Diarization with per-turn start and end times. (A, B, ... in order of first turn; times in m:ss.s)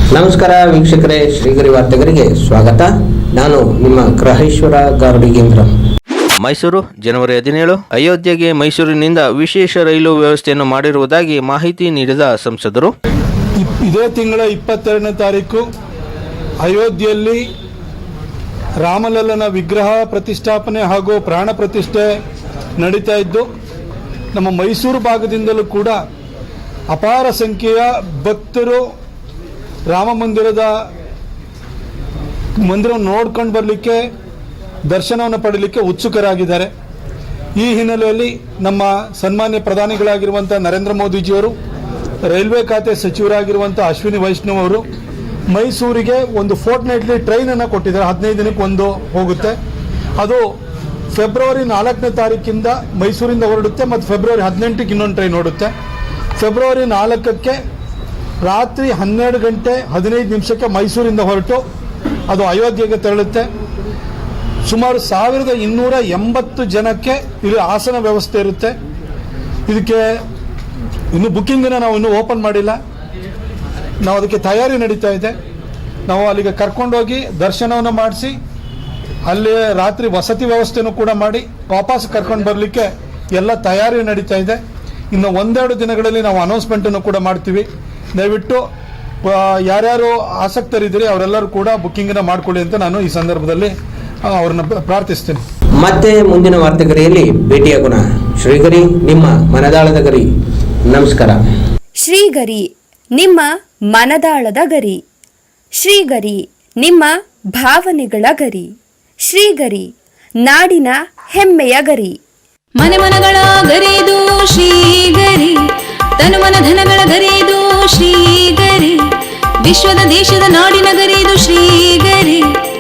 0:00.1-0:05.7 A
0:06.4-0:12.9 B
0:13.6-0:15.6 C
0:16.6-0:17.4 C
0:18.8-0:22.1 C
0:22.8-0:23.5 C
0:24.3-0:26.0 C
0:26.9-0:28.8 C
0:29.9-0:30.7 C
0:32.6-0:34.0 C
0:34.9-0:36.7 C
0:37.6-0:41.5 C
0:42.3-0:44.8 C
0:45.5-0:49.6 C
0:50.2-0:50.4 C
0:51.1-0:55.7 C
0:56.4-0:57.6 C
0:58.4-1:01.6 C
1:02.3-1:03.5 C
1:04.6-1:08.7 C
1:09.7-1:10.1 C
1:11.1-1:12.8 C
1:14.0-1:15.4 C
1:16.1-1:18.4 C
1:19.2-1:24.6 C
1:25.1-1:28.6 C
1:29.2-1:33.7 C
1:34.3-1:35.4 C
1:35.8-1:40.3 A
1:40.9-1:41.4 A
1:42.0-1:45.0 D
1:45.8-1:48.7 D
1:49.3-1:49.9 D
1:50.4-1:52.1 D
1:52.8-1:55.6 E
1:56.2-1:59.0 E
1:59.6-2:02.5 E